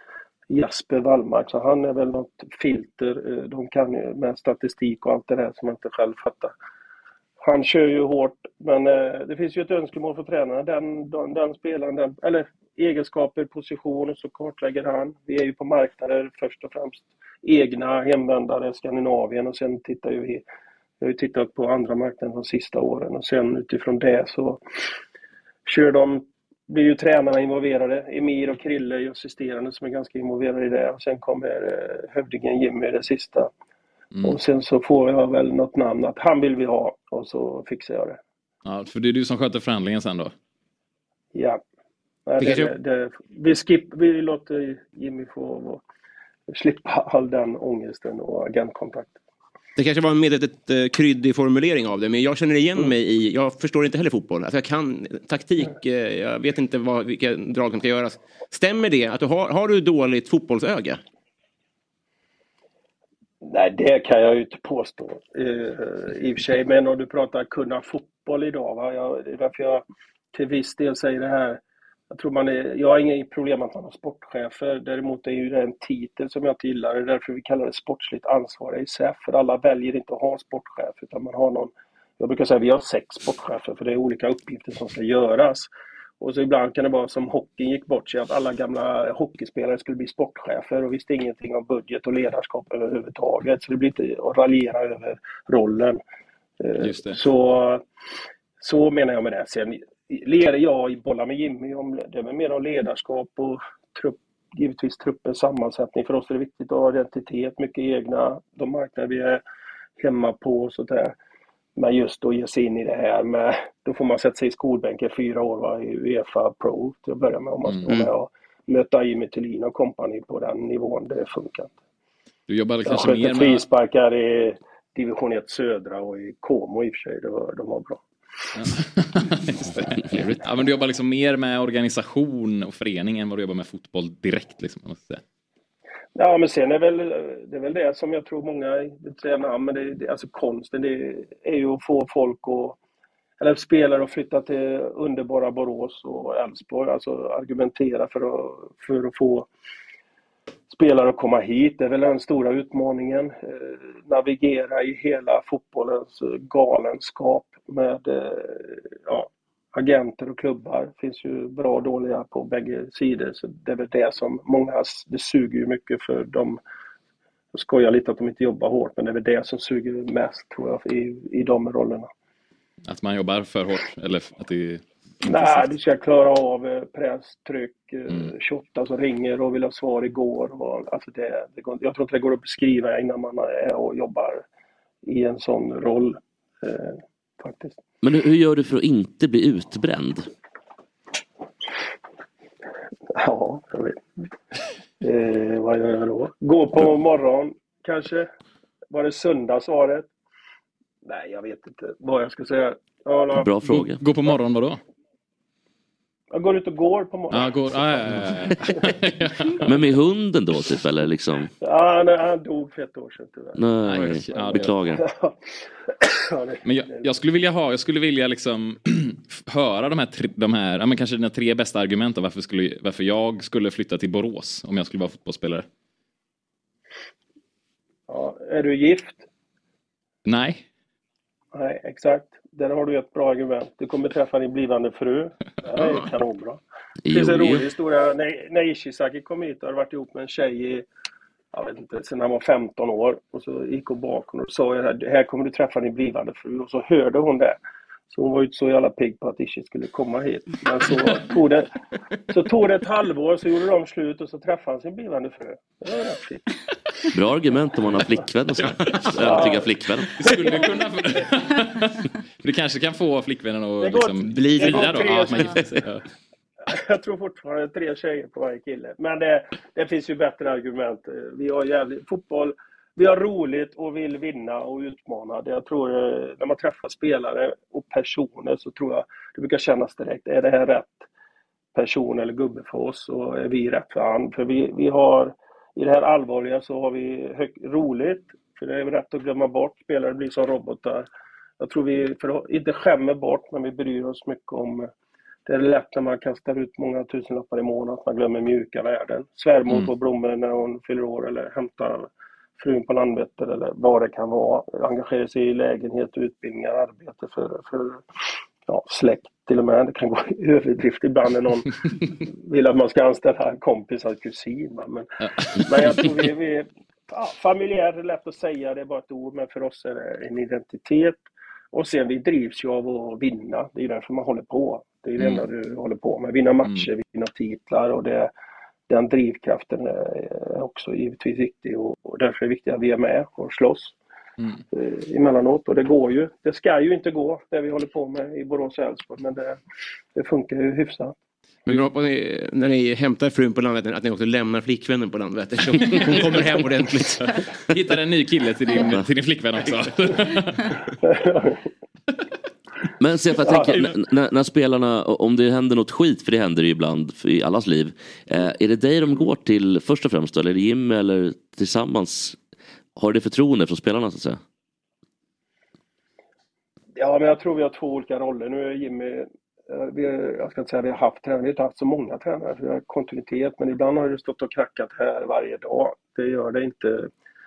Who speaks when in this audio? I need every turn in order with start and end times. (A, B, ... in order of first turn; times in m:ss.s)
0:00.5-0:06.5 A
0:07.4-0:20.4 A
0:21.0-0:24.6 A
0:25.7-0:33.5 A
0:34.2-0:38.2 A
0:38.6-0:40.3 B
0:41.3-0:41.6 A
0:42.3-0:45.8 A
0:42.4-0:42.7 C
0:46.5-0:49.2 A
0:49.8-1:01.0 C
1:03.4-1:25.7 A
1:26.2-1:36.0 A
1:36.6-1:37.8 A
1:36.8-1:37.2 B
1:38.6-1:49.4 A
1:50.0-1:51.1 A
1:51.8-2:01.7 A
2:02.5-2:03.6 B
2:02.8-2:08.0 A
2:08.6-2:15.2 B
2:16.2-2:22.8 A
2:23.4-2:29.5 A
2:30.7-2:46.6 A
2:47.5-2:52.1 A
2:52.9-2:55.6 B
2:55.2-3:04.4 A
3:05.0-3:07.8 A
3:08.0-3:10.3 D
3:13.2-3:14.2 A
3:15.0-3:18.3 A
3:18.9-3:20.1 A
3:21.0-3:23.5 A
3:23.4-3:24.0 D
3:23.7-3:24.8 B
3:26.3-3:28.9 A
3:27.3-3:29.6 B
3:29.6-3:31.5 D
3:31.6-3:37.0 A
3:33.6-3:35.0 D
3:33.9-3:34.7 B
3:36.6-3:45.7 B
3:48.1-3:49.2 A
3:50.3-3:50.6 B
3:51.5-4:00.9 A
3:57.1-3:57.6 D
4:01.5-4:07.6 A
4:08.1-4:11.7 A
4:12.3-4:16.4 A
4:17.1-4:20.2 D
4:19.0-4:19.4 B
4:19.2-4:19.7 A
4:20.2-4:26.0 B
4:23.8-4:25.7 A
4:26.7-4:41.1 A
4:41.7-4:51.1 A
4:51.6-4:54.9 A
4:55.4-5:08.0 A
5:08.7-5:21.2 A
5:21.7-5:28.3 A
5:25.2-5:25.4 B
5:28.9-5:33.9 A
5:34.7-5:39.6 A
5:40.2-5:41.2 A
5:41.7-5:47.3 C
5:46.0-5:46.4 B
5:47.7-5:50.8 B
5:51.0-5:51.6 A
5:53.0-6:02.4 D
5:53.4-5:53.7 A
6:03.0-6:04.4 D
6:07.0-6:17.1 A